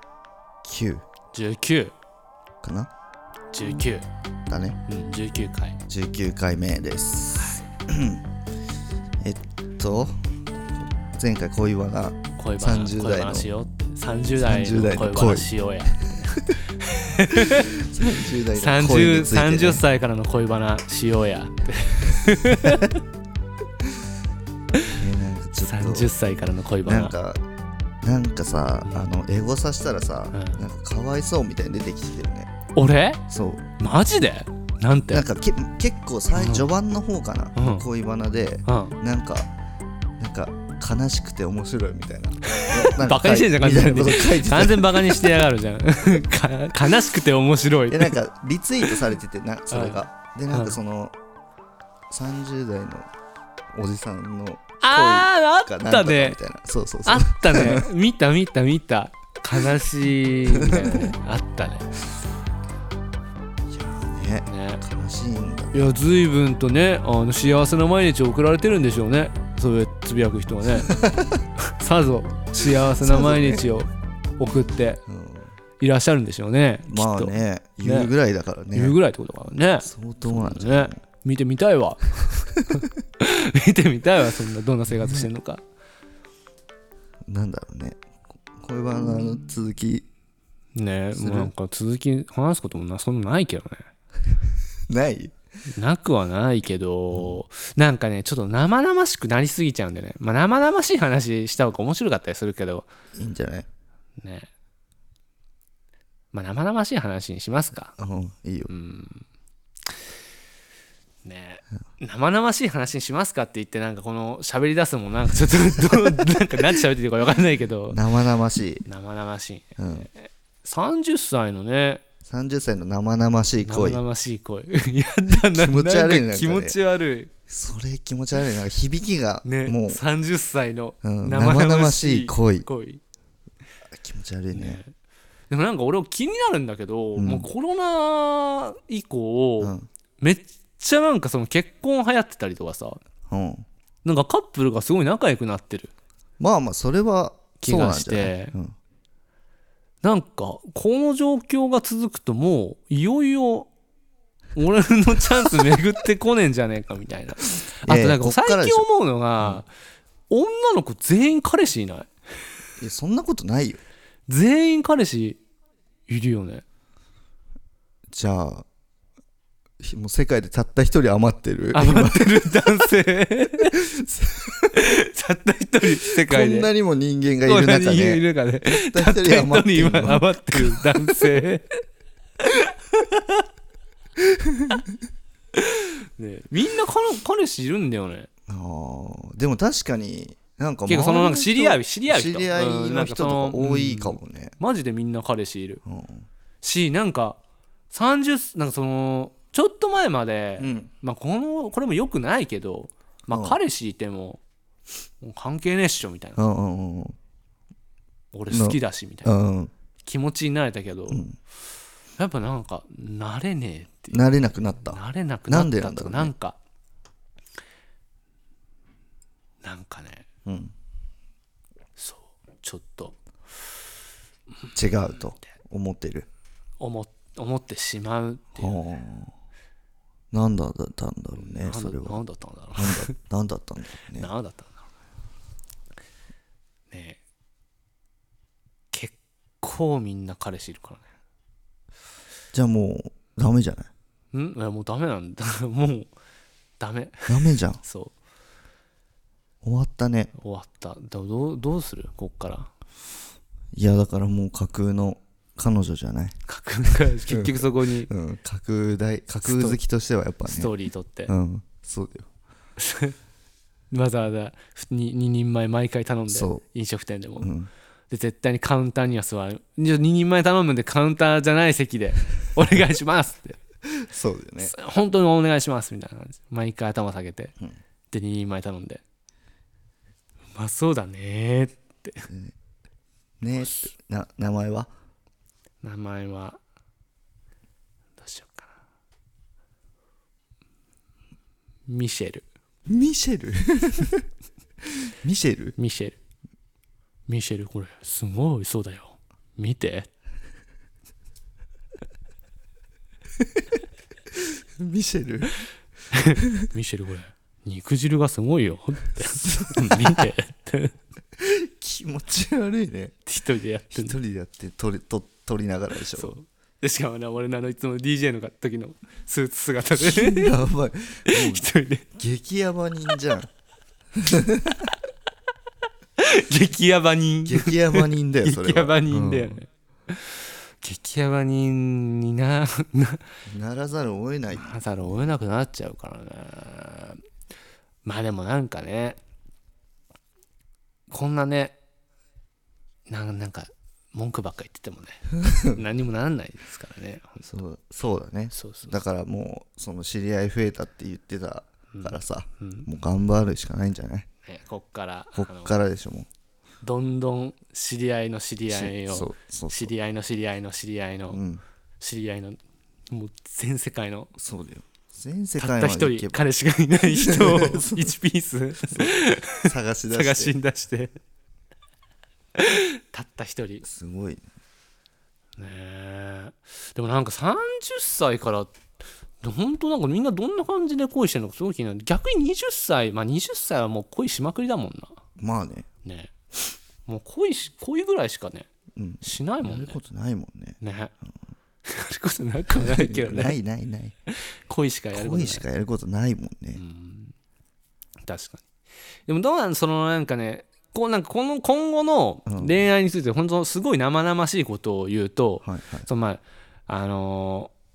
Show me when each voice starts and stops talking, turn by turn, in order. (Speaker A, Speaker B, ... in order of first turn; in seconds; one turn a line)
Speaker A: 0.6-1.0
Speaker B: 1.3-1.9
Speaker A: 2.6-2.9
Speaker B: 3.5-4.1
Speaker A: 4.5-4.8
Speaker B: 4.9-5.8
Speaker A: 5.9-8.3
Speaker B: 7.3-7.6
Speaker A: 9.2-13.5
Speaker B: 12.4-17.8
Speaker A: 14.3-15.5
Speaker A: 17.4-19.8
Speaker B: 18.5-23.0
Speaker A: 25.0-26.1
Speaker B: 25.6-27.1
Speaker A: 26.8-27.4
Speaker A: 28.0-32.5
Speaker B: 28.9-29.1
Speaker B: 30.3-30.6
Speaker B: 32.8-33.2
Speaker A: 33.3-33.8
Speaker B: 33.8-35.3
Speaker A: 35.1-39.5
Speaker B: 36.4-36.7
Speaker B: 37.6-37.9
Speaker B: 38.7-39.0
Speaker A: 40.2-45.4
Speaker B: 42.6-48.1
Speaker A: 47.9-51.1
Speaker B: 49.7-50.8
Speaker A: 52.1-53.1
Speaker A: 53.7-57.9
Speaker B: 54.8-56.4
Speaker B: 57.1-61.9
Speaker A: 60.5-61.1
Speaker A: 63.7-66.0
Speaker B: 64.5-64.8
Speaker B: 65.7-71.0
Speaker A: 70.8-71.4
Speaker B: 71.6-75.0
Speaker A: 72.9-73.7
Speaker A: 75.1-75.5
Speaker B: 75.8-78.1
Speaker A: 76.9-79.0
Speaker B: 78.7-85.6
Speaker A: 79.8-81.0
Speaker A: 84.9-85.3
Speaker A: 87.3-88.0
Speaker A: 88.6-90.1
Speaker B: 90.8-93.8
Speaker A: 91.1-91.5
Speaker A: 94.9-95.3
Speaker B: 95.8-102.9
Speaker A: 97.1-97.4
Speaker A: 103.2-103.7
Speaker B: 104.2-104.5
Speaker B: 106.3-108.0
Speaker A: 108.0-108.7
Speaker B: 108.7-109.2
Speaker B: 111.2-118.0
Speaker A: 115.8-116.3
Speaker A: 117.9-118.9
Speaker B: 118.9-122.0
Speaker A: 119.8-120.1
Speaker A: 122.2-124.0
Speaker B: 123.6-127.3
Speaker A: 125.4-126.8
Speaker A: 127.5-130.0
Speaker B: 129.4-133.0
Speaker A: 131.0-132.7
Speaker A: 133.9-134.8
Speaker B: 134.5-134.9
Speaker B: 135.5-143.0
Speaker A: 137.2-137.5
Speaker A: 139.6-139.9
Speaker A: 143.3-143.7
Speaker B: 144.0-145.9
Speaker A: 146.4-148.8
Speaker B: 147.6-148.6
Speaker B: 150.0-153.7
Speaker B: 154.6-159.7
Speaker A: 157.8-158.8
Speaker B: 160.3-162.1
Speaker A: 162.8-163.8
Speaker B: 164.3-165.4
Speaker B: 166.1-166.6
Speaker A: 168.1-168.7
Speaker A: 169.8-172.7
Speaker B: 171.7-173.9
Speaker A: 173.7-174.5
Speaker B: 174.5-176.7
Speaker A: 176.2-181.4
Speaker B: 177.4-181.8
Speaker B: 182.4-183.1
Speaker A: 184.2-184.8
Speaker B: 185.6-188.3
Speaker A: 188.5-194.6
Speaker B: 190.9-195.8
Speaker A: 195.8-196.3
Speaker B: 196.6-197.4
Speaker B: 197.9-204.4
Speaker A: 200.6-200.9
Speaker A: 203.3-203.6
Speaker B: 205.2-206.4
Speaker A: 206.4-207.2
Speaker B: 208.3-209.3
Speaker A: 208.5-209.7
Speaker B: 210.1-211.2
Speaker A: 211.1-211.4
Speaker B: 212.2-214.3
Speaker A: 214.1-216.3
Speaker B: 214.8-216.6
Speaker B: 219.6-220.3
Speaker A: 220.4-220.7
Speaker B: 222.0-223.2
Speaker B: 224.7-225.3
Speaker A: 224.8-226.3
Speaker B: 226.8-228.8
Speaker A: 228.6-229.3
Speaker A: 230.3-232.2
Speaker B: 231.4-233.1
Speaker A: 232.8-234.3
Speaker B: 234.1-234.8
Speaker B: 236.9-237.2
Speaker B: 238.9-241.1
Speaker A: 242.5-243.9
Speaker B: 244.3-246.1
Speaker B: 246.8-248.1
Speaker A: 247.3-247.8
Speaker A: 249.6-250.3
Speaker B: 250.4-252.7
Speaker A: 253.7-256.4
Speaker B: 256.5-258.1
Speaker A: 257.3-260.7
Speaker B: 259.4-259.8
Speaker B: 260.5-261.3
Speaker A: 261.3-262.3
Speaker B: 262.8-263.1
Speaker B: 263.9-267.5
Speaker A: 266.3-266.6
Speaker A: 267.4-267.7
Speaker B: 268.1-273.6
Speaker A: 274.0-274.7
Speaker B: 274.6-277.5
Speaker B: 278.1-279.0
Speaker B: 280.5-282.3
Speaker A: 282.3-282.6
Speaker A: 283.4-284.9
Speaker B: 283.6-283.9
Speaker B: 285.8-286.6
Speaker B: 288.2-288.8
Speaker B: 291.9-292.4
Speaker A: 292.9-294.2
Speaker A: 295.1-295.8
Speaker B: 295.8-296.2
Speaker B: 297.3-300.1
Speaker A: 304.8-305.6
Speaker B: 306.1-311.0
Speaker A: 309.4-310.3
Speaker A: 311.4-313.1
Speaker B: 313.3-314.2
Speaker A: 313.9-316.3
Speaker B: 316.1-320.6
Speaker A: 320.0-323.5
Speaker B: 321.3-322.1
Speaker A: 324.2-324.9
Speaker B: 326.2-333.2
Speaker A: 327.4-329.6
Speaker A: 333.5-335.3
Speaker B: 334.5-337.2
Speaker B: 338.1-339.2
Speaker B: 341.1-341.8
Speaker B: 343.1-347.5
Speaker A: 347.4-354.3
Speaker B: 348.5-348.9
Speaker B: 351.9-352.9
Speaker B: 354.4-355.8
Speaker A: 355.4-356.3
Speaker B: 356.8-361.4
Speaker A: 358.7-359.9
Speaker A: 361.3-361.6
Speaker B: 362.0-364.3
Speaker A: 364.4-366.4
Speaker B: 365.6-371.1
Speaker A: 367.2-368.1
Speaker A: 369.6-370.6
Speaker B: 372.6-373.8
Speaker A: 373.8-374.5
Speaker B: 375.6-378.7
Speaker B: 379.4-385.2
Speaker A: 385.4-385.9
Speaker B: 386.0-386.3
Speaker B: 387.1-388.7
Speaker A: 389.0-390.8
Speaker B: 389.2-390.0
Speaker B: 390.8-391.1
Speaker B: 391.9-393.6
Speaker A: 392.7-394.1
Speaker B: 394.3-395.6
Speaker A: 395.1-396.8
Speaker B: 396.8-397.3
Speaker B: 398.2-398.6
Speaker B: 399.3-407.7
Speaker A: 402.5-402.8
Speaker A: 405.6-406.1